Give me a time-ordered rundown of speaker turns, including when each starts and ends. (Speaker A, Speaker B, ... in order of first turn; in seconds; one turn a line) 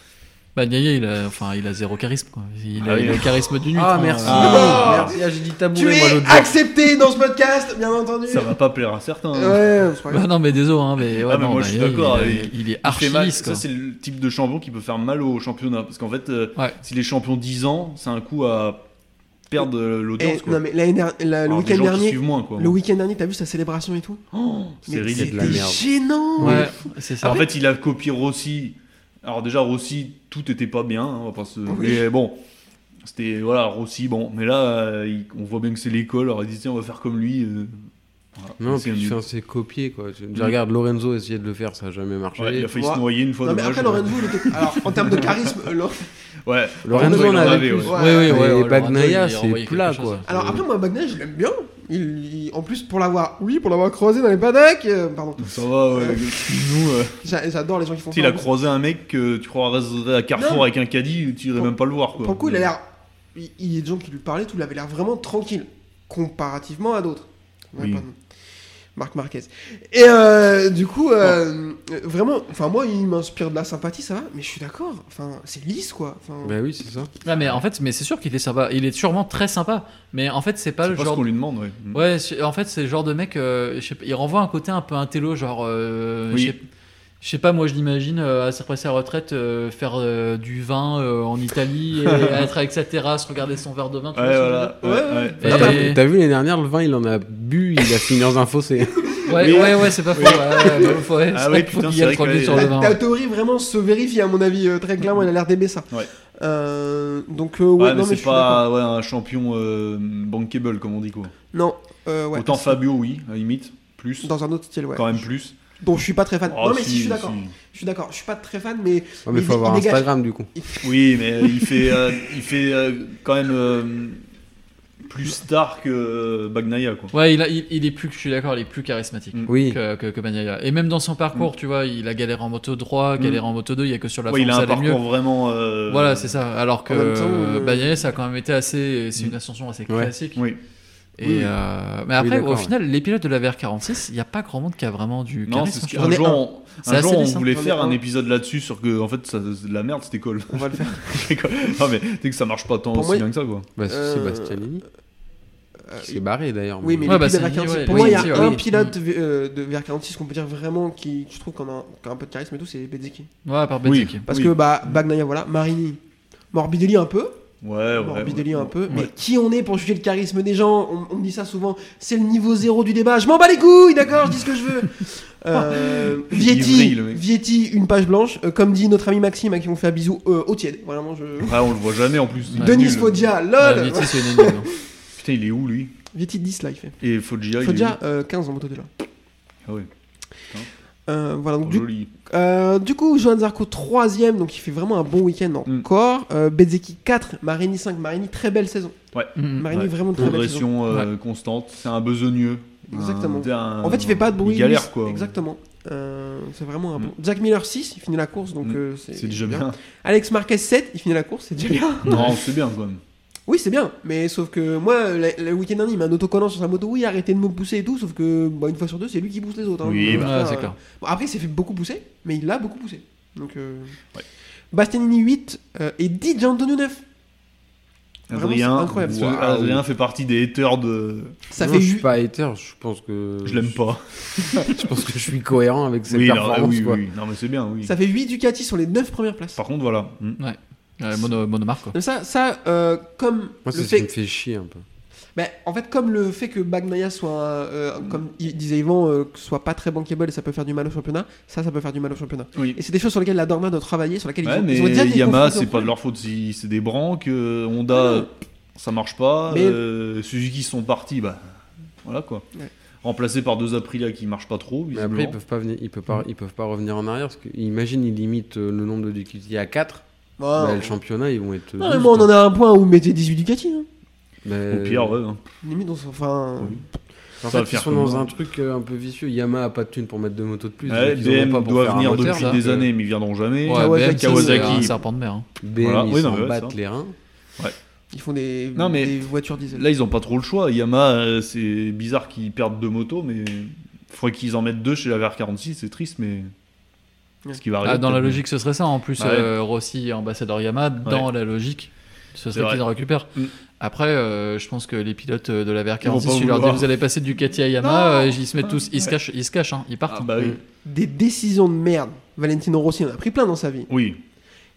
Speaker A: 0.5-4.8
Speaker B: 2.8-3.4
Speaker C: 3.7-6.5
Speaker B: 4.2-5.2
Speaker D: 4.3-5.2
Speaker D: 5.7-8.5
Speaker B: 8.3-9.7
Speaker D: 9.3-10.2
Speaker A: 10.1-13.6
Speaker B: 11.2-18.9
Speaker B: 19.5-20.6
Speaker D: 20.2-24.2
Speaker B: 21.5-22.8
Speaker B: 24.3-25.8
Speaker D: 24.9-27.4
Speaker C: 25.1-25.8
Speaker C: 26.4-26.6
Speaker A: 26.4-27.4
Speaker B: 27.2-32.4
Speaker D: 31.7-32.0
Speaker B: 33.0-39.2
Speaker C: 38.6-42.7
Speaker B: 42.4-45.5
Speaker D: 42.7-46.1
Speaker B: 46.4-47.9
Speaker C: 46.8-50.6
Speaker D: 46.9-48.4
Speaker A: 47.9-50.2
Speaker D: 50.3-56.3
Speaker B: 50.3-50.6
Speaker B: 55.4-57.2
Speaker D: 57.2-58.5
Speaker B: 58.1-62.7
Speaker D: 60.4-60.6
Speaker D: 61.6-68.1
Speaker B: 67.8-68.0
Speaker D: 68.9-76.6
Speaker C: 76.4-77.1
Speaker A: 77.2-81.2
Speaker B: 80.9-82.0
Speaker A: 81.9-86.6
Speaker A: 87.2-94.7
Speaker B: 92.1-92.4
Speaker B: 94.1-95.8
Speaker D: 94.8-95.8
Speaker A: 95.4-96.0
Speaker C: 95.4-99.0
Speaker D: 99.0-101.0
Speaker A: 99.3-103.0
Speaker B: 99.4-102.8
Speaker D: 102.5-108.6
Speaker B: 107.8-111.3
Speaker D: 111.5-112.8
Speaker B: 112.3-114.3
Speaker D: 114.2-120.9
Speaker B: 114.9-115.6
Speaker B: 116.5-117.5
Speaker C: 119.2-120.5
Speaker B: 120.8-124.2
Speaker B: 125.0-127.1
Speaker A: 127.1-135.0
Speaker C: 129.5-129.8
Speaker B: 134.3-136.3
Speaker A: 135.9-140.5
Speaker D: 136.9-137.9
Speaker C: 139.9-140.1
Speaker A: 141.2-146.0
Speaker C: 141.2-141.5
Speaker C: 142.2-142.7
Speaker B: 145.4-153.7
Speaker D: 146.0-146.4
Speaker A: 146.8-147.4
Speaker D: 147.5-148.0
Speaker D: 150.5-151.0
Speaker D: 152.9-153.2
Speaker C: 153.8-154.8
Speaker D: 153.8-154.6
Speaker D: 155.9-156.2
Speaker C: 156.0-158.6
Speaker D: 156.8-163.3
Speaker A: 157.0-158.9
Speaker A: 163.4-164.2
Speaker B: 163.8-165.0
Speaker D: 164.3-166.0
Speaker D: 166.5-167.4
Speaker B: 167.6-169.1
Speaker D: 167.9-181.7
Speaker B: 175.5-177.2
Speaker B: 181.4-183.2
Speaker A: 182.5-182.9
Speaker D: 182.5-184.7
Speaker A: 183.6-184.7
Speaker B: 185.2-185.9
Speaker D: 186.1-187.0
Speaker B: 187.0-187.9
Speaker D: 187.6-188.9
Speaker D: 191.1-199.0
Speaker B: 191.6-192.1
Speaker B: 199.1-205.4
Speaker A: 199.3-199.7
Speaker D: 199.6-200.7
Speaker D: 202.9-212.4
Speaker B: 208.6-209.8
Speaker B: 212.1-213.0
Speaker D: 213.5-224.0
Speaker B: 219.8-220.3
Speaker A: 220.1-220.8
Speaker D: 224.7-227.0
Speaker D: 228.3-229.8
Speaker B: 228.3-231.3
Speaker D: 231.5-232.1
Speaker C: 231.6-237.0
Speaker B: 233.4-234.8
Speaker B: 236.1-237.9
Speaker D: 237.8-239.6
Speaker B: 239.6-240.4
Speaker A: 240.4-241.9
Speaker D: 241.9-244.1
Speaker C: 243.7-244.8
Speaker D: 245.3-255.9
Speaker B: 254.4-262.5
Speaker D: 257.9-258.3
Speaker D: 259.5-259.8
Speaker B: 263.0-265.4
Speaker C: 264.9-272.3
Speaker D: 270.4-270.9
Speaker D: 271.8-273.9
Speaker C: 274.4-275.2
Speaker B: 274.7-275.4
Speaker D: 275.6-276.8
Speaker C: 277.4-282.9
Speaker B: 277.4-278.3
Speaker B: 280.9-284.9
Speaker A: 282.3-282.6
Speaker A: 283.6-285.4
Speaker D: 283.7-285.0
Speaker C: 285.6-287.1
Speaker B: 285.8-286.7
Speaker D: 288.1-289.8
Speaker B: 288.7-296.5
Speaker B: 297.5-298.4
Speaker A: 297.8-310.3
Speaker B: 299.2-299.5
Speaker B: 302.5-302.8
Speaker B: 306.0-306.9
Speaker D: 307.8-308.4
Speaker B: 308.6-309.1
Speaker B: 310.1-310.6
Speaker D: 310.8-313.9
Speaker B: 313.9-314.2